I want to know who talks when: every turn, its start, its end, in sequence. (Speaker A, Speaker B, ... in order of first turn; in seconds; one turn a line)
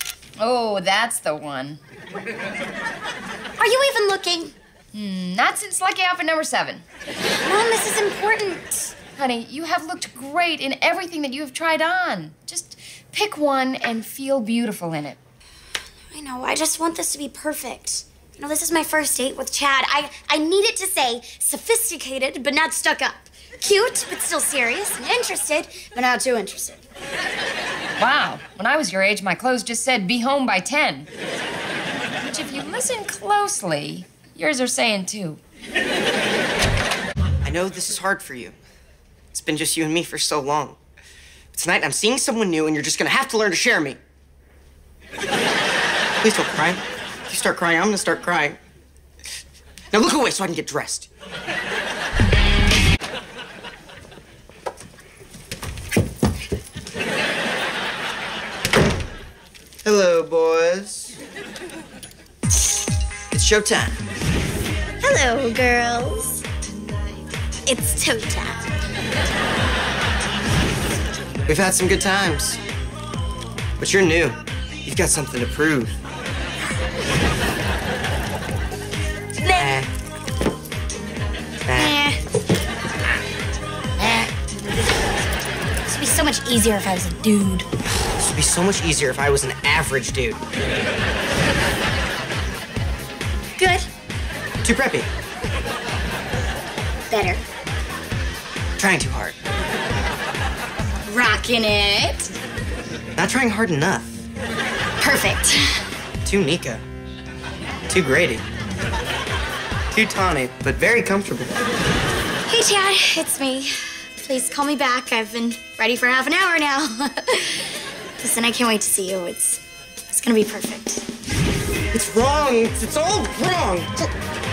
Speaker A: 0.4-1.8
Speaker B: 3.6-4.5
Speaker A: 4.9-6.8
Speaker B: 7.4-8.9
Speaker A: 9.2-15.2
Speaker B: 16.1-26.8
Speaker A: 28.0-31.1
Speaker A: 32.2-35.4
Speaker C: 37.4-38.6
Speaker C: 39.3-40.8
Speaker C: 41.5-44.0
Speaker C: 46.2-48.6
Speaker C: 49.9-51.1
Speaker C: 59.8-61.2
Speaker C: 63.3-64.0
Speaker B: 65.0-66.4
Speaker B: 67.7-68.7
Speaker C: 71.5-72.6
Speaker C: 73.8-76.0
Speaker B: 79.4-79.8
Speaker C: 79.5-79.9
Speaker C: 81.7-82.0
Speaker B: 81.8-82.2
Speaker B: 85.9-87.7
Speaker C: 88.2-90.4
Speaker B: 93.6-93.9
Speaker C: 94.6-95.1
Speaker B: 97.1-97.4
Speaker C: 98.8-99.3
Speaker A: 101.1-102.3
Speaker C: 103.2-104.1
Speaker B: 105.0-105.8
Speaker C: 106.2-106.8
Speaker C: 107.9-108.4
Speaker C: 109.9-111.5
Speaker B: 112.5-121.0
Speaker C: 121.9-124.1